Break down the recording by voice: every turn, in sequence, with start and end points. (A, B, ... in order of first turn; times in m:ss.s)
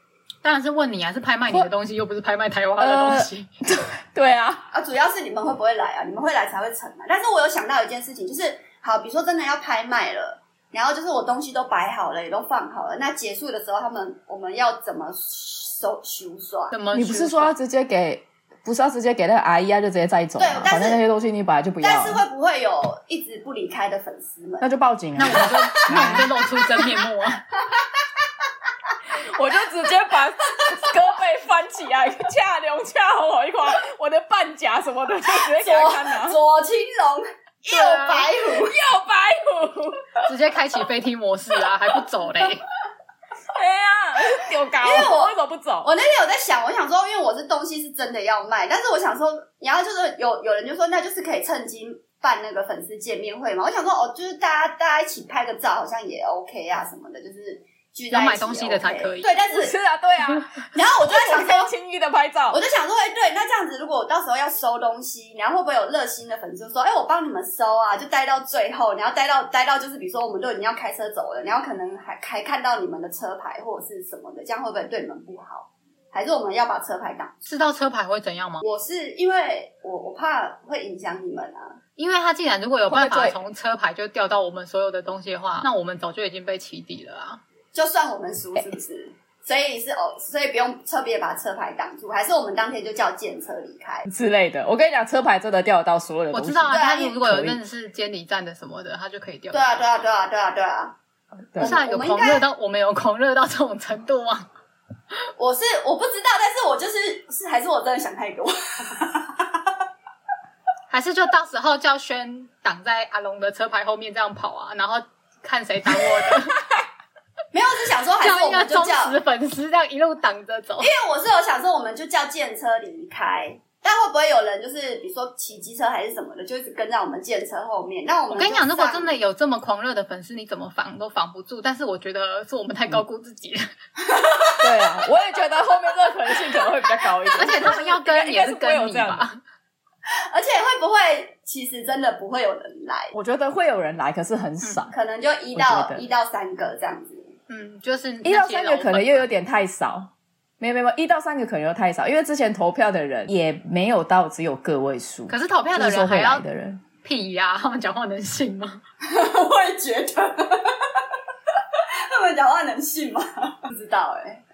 0:00.4-0:03.5 A
0:02.8-0:04.6 B
0:04.7-0:16.7 C
0:16.7-0:17.5 A
0:16.9-0:22.2 B
0:20.4-0:21.0 C
0:21.8-0:24.6 C
0:24.6-0:26.3 B
0:25.2-0:27.4 A
0:25.2-0:26.8 C
0:27.6-0:29.0 C
0:29.1-0:36.4 B
0:30.6-0:30.9 C
0:35.3-0:38.8 C
0:37.7-0:38.4 A
0:38.6-0:40.1 B
0:40.2-0:42.6 A
0:43.5-0:45.9 B
0:44.7-0:59.7 C
0:58.1-0:59.3 A
0:59.5-1:02.6 B
1:00.7-1:01.7 C
1:02.5-1:17.3 C
1:17.4-1:18.6 A
1:18.6-1:21.8 C
1:22.0-1:27.4 A
1:22.9-1:23.3 B
1:27.7-1:34.1 C
1:34.1-1:37.6 B
1:36.3-1:39.7 A
1:36.7-1:37.2 C
1:39.5-1:40.9 C
1:41.6-1:42.4 C
1:41.6-1:44.5 A
1:45.4-1:49.7 C
1:50.9-1:56.6 A
1:57.5-1:59.2 C
1:58.2-2:00.9 A
2:00.8-2:09.1 C
2:08.3-2:13.7 A
2:14.0-2:14.9 C
2:14.6-2:19.2 B
2:17.3-2:19.4 A
2:20.3-2:23.1 C
2:23.1-2:24.9 B
2:24.9-2:27.3 C
2:25.6-2:26.0 B
2:27.5-2:29.2 A
2:28.2-2:36.8 B
2:35.3-2:36.4 A
2:37.0-2:38.8 A
2:39.0-2:41.0 C
2:41.8-2:44.4 C